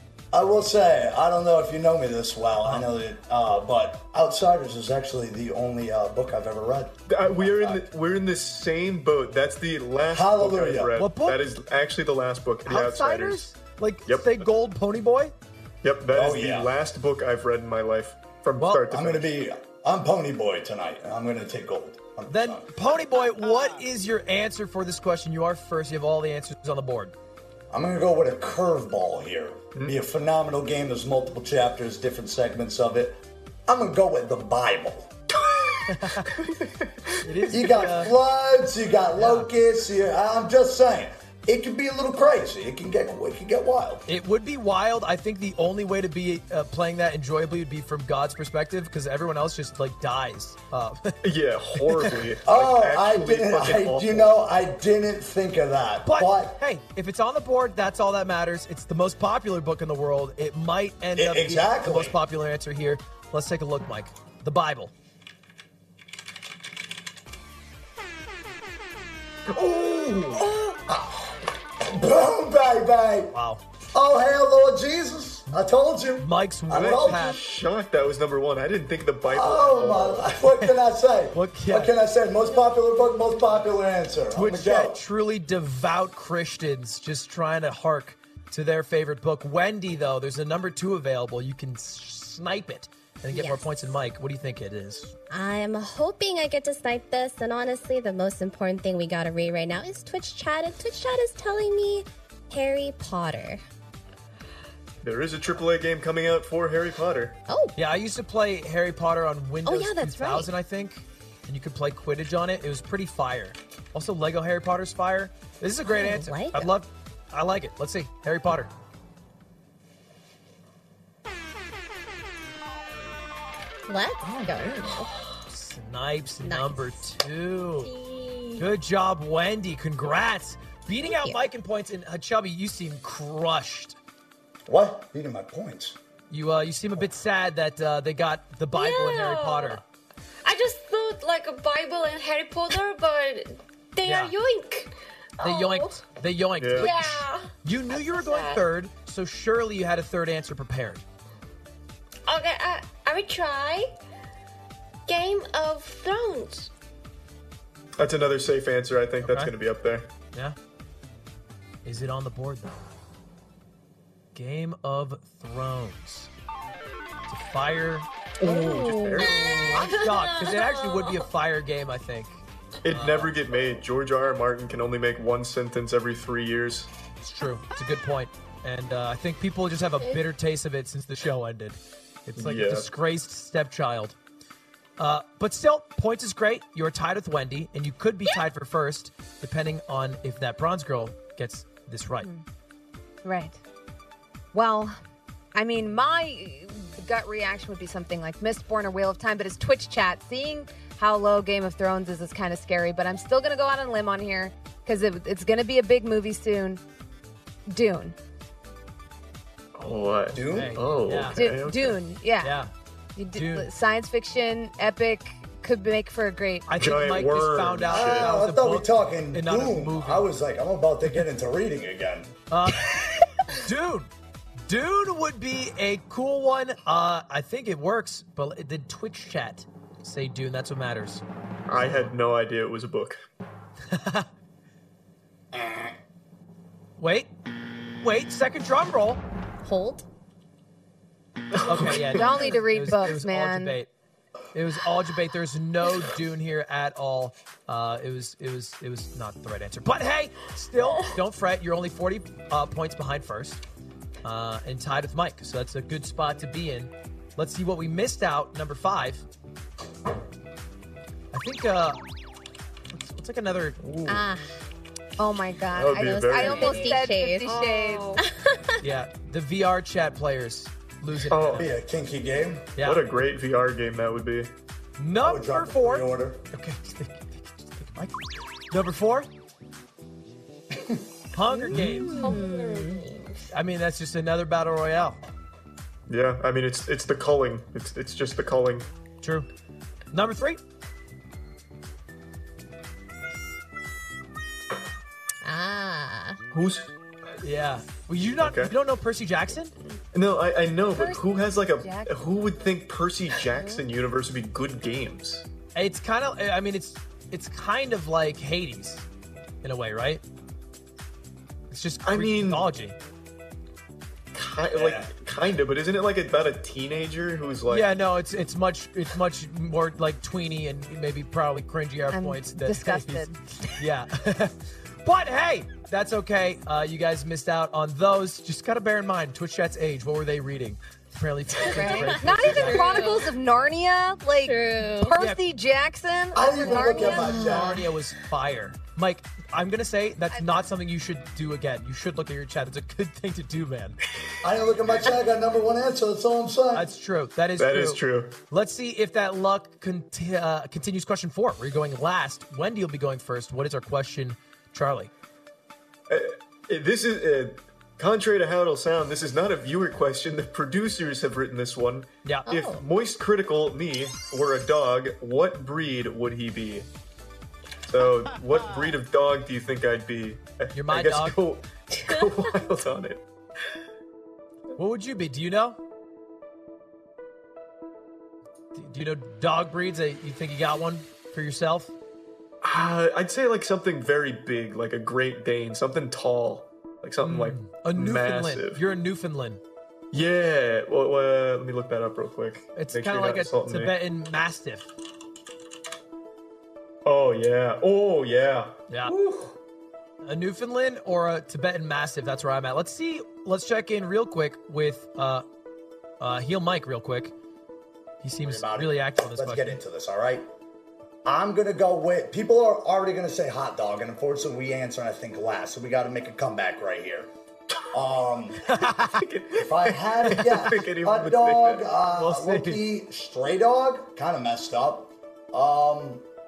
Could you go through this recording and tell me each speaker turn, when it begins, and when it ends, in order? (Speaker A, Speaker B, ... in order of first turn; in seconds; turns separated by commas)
Speaker A: 0.3-7.9, Speaker B: 7.1-13.5, Speaker A: 10.1-11.0, Speaker C: 10.9-11.4, Speaker C: 12.7-15.3, Speaker B: 14.1-14.4, Speaker B: 15.8-19.3, Speaker A: 16.1-16.7, Speaker C: 18.6-18.9, Speaker A: 18.9-22.7, Speaker C: 22.3-27.1, Speaker A: 27.7-35.1, Speaker B: 35.3-37.5, Speaker C: 35.9-36.4, Speaker C: 37.2-38.1, Speaker A: 37.5-44.1, Speaker C: 39.1-39.5, Speaker C: 44.1-52.3, Speaker B: 51.2-54.3, Speaker A: 52.4-56.6, Speaker C: 56.0-64.9, Speaker A: 61.1-62.2, Speaker B: 69.5-70.5, Speaker A: 70.4-73.3, Speaker C: 73.3-73.6, Speaker A: 73.9-77.3, Speaker C: 76.2-77.4, Speaker B: 76.7-80.3, Speaker A: 79.2-85.0, Speaker C: 81.3-81.9, Speaker C: 84.3-95.1, Speaker D: 93.3-93.7, Speaker D: 95.3-103.6, Speaker B: 105.0-107.4, Speaker D: 107.5-107.8, Speaker C: 107.8-118.7, Speaker D: 109.7-110.5, Speaker D: 115.8-116.7, Speaker D: 123.9-125.1, Speaker B: 124.2-125.0, Speaker C: 125.5-127.9, Speaker D: 126.4-127.1, Speaker E: 127.8-128.7, Speaker C: 128.6-133.9, Speaker D: 131.0-131.4, Speaker A: 134.7-136.0, Speaker C: 136.3-139.8, Speaker E: 138.7-139.8, Speaker E: 140.4-146.0, Speaker C: 144.0-144.3, Speaker C: 145.4-151.0, Speaker B: 146.6-146.9, Speaker E: 146.8-148.6, Speaker E: 152.2-153.9, Speaker E: 155.1-156.7, Speaker B: 158.0-160.1, Speaker C: 159.2-159.5, Speaker C: 161.8-162.8, Speaker C: 164.3-166.3, Speaker C: 167.3-168.1, Speaker B: 168.4-169.7, Speaker D: 168.4-169.7, Speaker E: 169.1-171.2, Speaker C: 169.6-172.4, Speaker B: 172.8-176.9, Speaker C: 172.9-173.3, Speaker C: 177.2-184.2, Speaker B: 182.3-182.9, Speaker C: 185.0-192.3, Speaker F: 193.2-193.6, Speaker F: 194.5-194.9, Speaker F: 195.5-206.8, Speaker F: 207.7-208.2, Speaker B: 209.8-212.0, Speaker A: 210.3-210.8, Speaker C: 210.4-211.5, Speaker F: 211.3-212.6, Speaker C: 212.4-212.7, Speaker F: 213.2-216.7, Speaker C: 213.3-213.7, Speaker C: 216.7-220.3, Speaker B: 216.7-218.4, Speaker A: 217.9-222.3, Speaker C: 222.5-224.1, Speaker C: 224.7-231.2, Speaker B: 231.7-233.2, Speaker C: 233.9-234.3, Speaker C: 237.0-237.3, Speaker C: 238.0-239.2, Speaker D: 239.6-240.0, Speaker B: 241.5-242.5, Speaker C: 241.6-243.9, Speaker F: 242.1-243.8, Speaker C: 244.5-253.6, Speaker C: 254.2-259.2, Speaker C: 261.3-262.0, Speaker C: 262.9-263.8, Speaker B: 263.8-264.2, Speaker D: 264.1-264.5, Speaker F: 265.2-268.2, Speaker B: 265.7-267.0, Speaker D: 265.9-267.6, Speaker E: 266.8-268.2, Speaker D: 268.2-268.7, Speaker C: 268.8-271.8, Speaker B: 271.3-271.7, Speaker A: 271.5-272.7, Speaker C: 272.8-273.0, Speaker B: 272.8-274.5, Speaker C: 275.0-278.2, Speaker A: 275.1-276.4, Speaker C: 278.7-279.3, Speaker A: 280.7-281.0, Speaker C: 281.3-282.4, Speaker D: 281.5-283.0, Speaker B: 281.7-282.0, Speaker E: 282.1-283.5, Speaker C: 283.5-285.2, Speaker B: 286.1-288.9, Speaker C: 289.2-289.5, Speaker C: 290.1-290.6, Speaker D: 295.4-296.4, Speaker B: 296.5-296.9, Speaker C: 297.4-299.7, Speaker B: 298.4-298.7, Speaker B: 300.1-305.4, Speaker F: 300.9-302.3, Speaker C: 305.7-309.0, Speaker C: 309.6-310.2, Speaker C: 311.7-313.0, Speaker B: 312.0-312.7, Speaker B: 314.3-317.9, Speaker A: 314.7-315.1, Speaker C: 317.7-333.2, Speaker F: 322.1-323.4, Speaker D: 331.6-333.3, Speaker F: 331.7-337.7, Speaker D: 334.4-335.2, Speaker A: 336.3-337.9, Speaker D: 336.6-337.9, Speaker C: 337.2-344.0, Speaker A: 344.4-346.9, Speaker C: 346.7-355.1, Speaker B: 347.6-348.4, Speaker B: 356.1-366.9, Speaker D: 362.5-362.8, Speaker B: 367.8-373.2, Speaker C: 370.7-371.4, Speaker C: 374.8-375.8, Speaker C: 378.7-381.9, Speaker B: 382.6-388.8, Speaker C: 387.2-389.6, Speaker B: 390.1-393.9, Speaker C: 392.7-394.9, Speaker B: 397.0-399.6, Speaker C: 398.9-399.1, Speaker C: 400.2-405.4, Speaker C: 406.2-407.3, Speaker C: 408.2-409.8, Speaker A: 408.4-410.5, Speaker A: 411.2-417.3, Speaker A: 417.9-418.7, Speaker C: 418.7-419.2, Speaker B: 419.0-421.8, Speaker A: 419.5-426.2, Speaker C: 420.2-420.7, Speaker C: 422.1-422.8